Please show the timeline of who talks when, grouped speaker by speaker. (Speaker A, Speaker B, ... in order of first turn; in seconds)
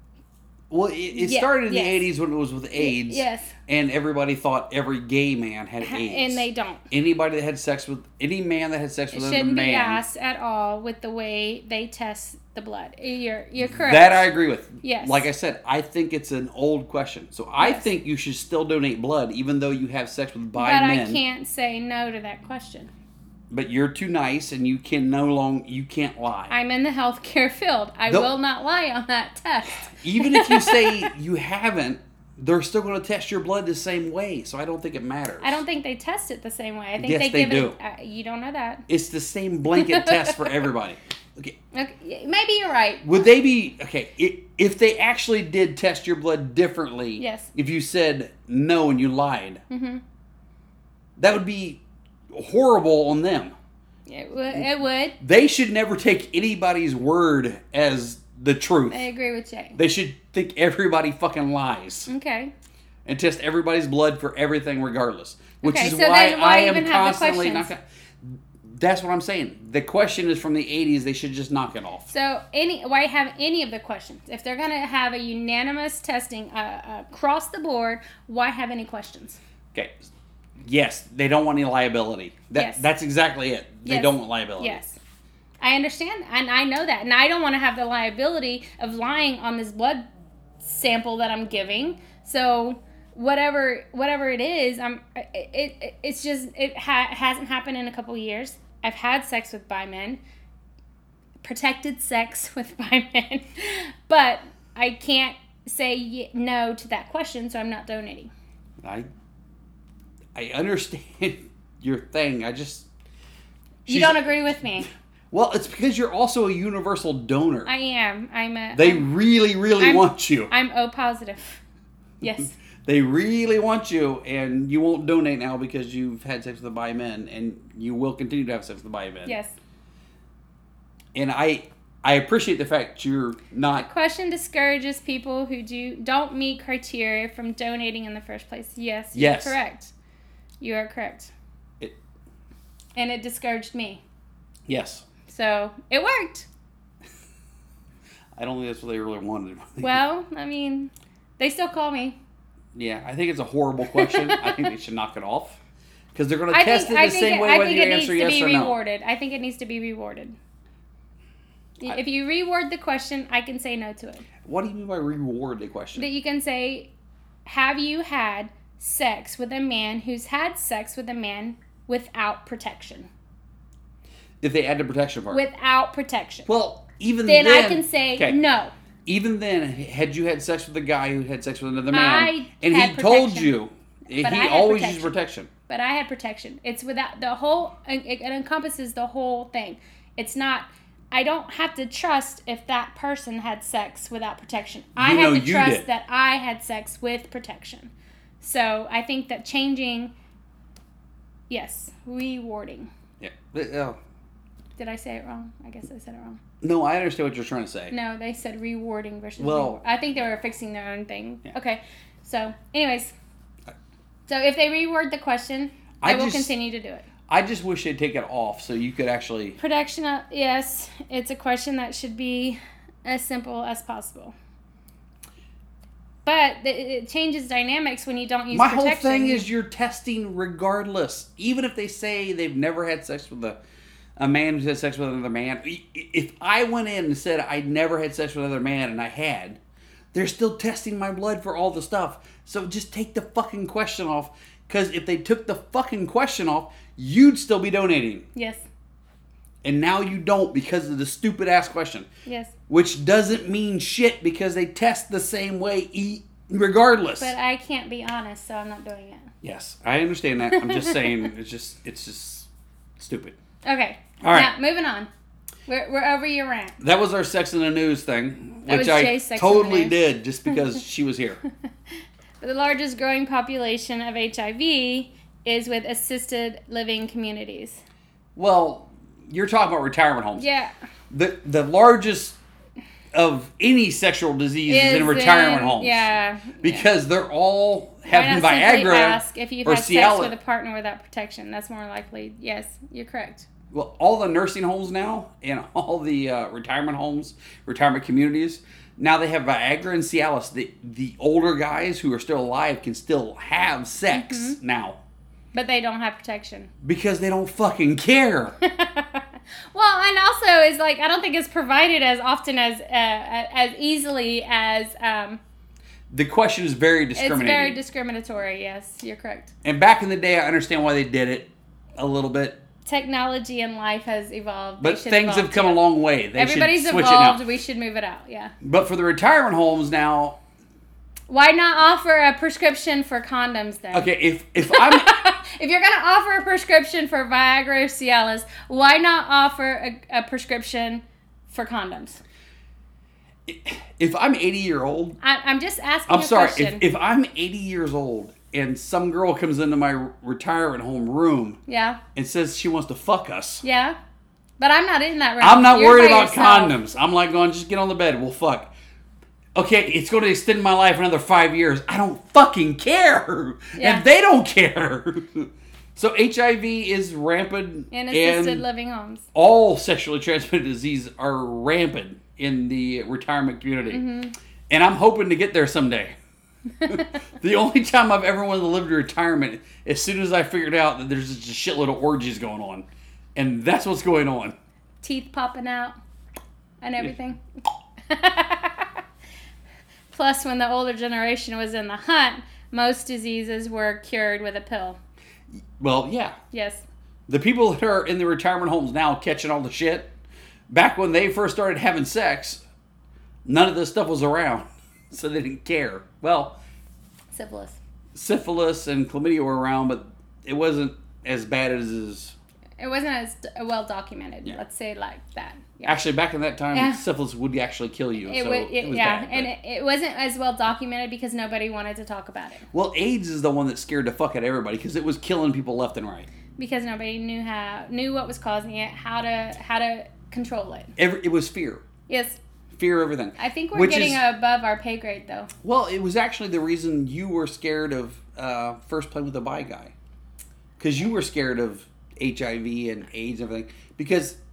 Speaker A: 0.7-10.0, 13.6-21.2, 23.5-26.5, 29.9-35.6, 37.0-37.8, 38.9-41.6, 43.0-49.6, 51.2-53.5, 54.5-59.0, 59.8-62.1, 63.0-72.1, 79.7-80.0, 80.6-84.8, 108.8-109.1, 110.3-112.9, 113.8-114.3, 114.8-117.7, 118.7-120.5, 122.4-129.3, 131.1-133.8, 139.1-139.6, 144.7-145.0, 148.4-150.0, 152.7-155.6, 156.1-158.8, 164.4-166.1, 174.4-175.4, 176.4-178.4, 179.1-185.5, 195.0-195.8, 203.2-204.0, 206.6-207.9, 209.4-209.8, 216.0-216.5, 217.3-219.6, 228.5-233.6, 234.2-239.6, 240.1-248.2, 249.6-252.1, 252.7-257.3, 259.4-263.4, 264.2-264.5, 266.8-271.4, 278.3-280.5, 281.1-282.4, 283.1-286.1, 286.6-290.3, 293.7-305.0, 306.8-308.6, 316.1-317.8, 319.6-322.6, 324.8-327.4, 328.6-330.4, 333.9-335.1, 343.5-345.2, 346.1-351.6, 352.1-353.6, 355.4-358.7, 359.5-368.6, 369.3-374.0, 374.7-376.1, 376.8-384.5, 395.8-396.4, 397.3-400.1, 400.7-402.6, 403.4-406.6, 408.1-412.4, 415.8-419.5, 422.7-426.3, 431.0-431.8, 432.7-434.2, 435.6-439.9, 440.8-444.4
Speaker B: 1.1-2.1, 2.7-3.5, 5.8-6.8, 9.1-14.3, 14.8-15.3, 17.6-17.9, 20.5-22.9, 26.5-31.1, 35.4-38.9, 39.8-40.5, 41.7-43.2, 47.2-47.5, 49.7-50.0, 54.1-55.2, 58.9-59.8, 62.1-62.5, 65.6-67.7, 72.1-79.4, 82.5-82.8, 83.8-85.0, 85.6-90.0, 90.6-100.2, 101.4-108.3, 113.8-114.9, 117.7-119.1, 119.8-121.6, 122.2-122.5, 129.2-129.5, 133.7-139.9, 140.6-141.3, 142.9-144.0, 145.2-146.5, 149.8-152.2, 153.9-154.7, 156.5-160.4, 161.8-164.2, 165.9-166.9, 167.4-173.1, 175.3-176.5, 177.2-178.7, 181.9-183.5, 184.2-185.1, 185.7-200.1, 201.5-202.9, 204.8-206.4, 207.9-213.1, 214.3-217.1, 219.6-224.3, 226.2-229.5, 248.3-248.6, 252.2-252.5, 257.2-259.3, 260.5-261.3, 263.6-265.1, 265.7-266.8, 268.6-270.0, 272.4-277.8, 280.4-280.7, 284.7-286.9, 288.1-293.5, 304.1-304.6, 305.5-306.7, 308.6-315.4, 317.1-319.5, 322.9-325.8, 326.3-328.5, 331.3-334.1, 334.6-342.2, 345.2-346.8, 351.7-352.0, 353.6-354.0, 354.6-356.8, 363.8-364.1, 367.9-369.2, 373.9-374.4, 385.0-385.9, 386.8-387.4, 388.1-389.0, 390.1-395.0, 396.5-396.8, 407.3-407.8, 412.8-416.0, 416.7-417.0, 418.2-422.6, 426.6-430.9, 432.1-432.4, 433.4-435.5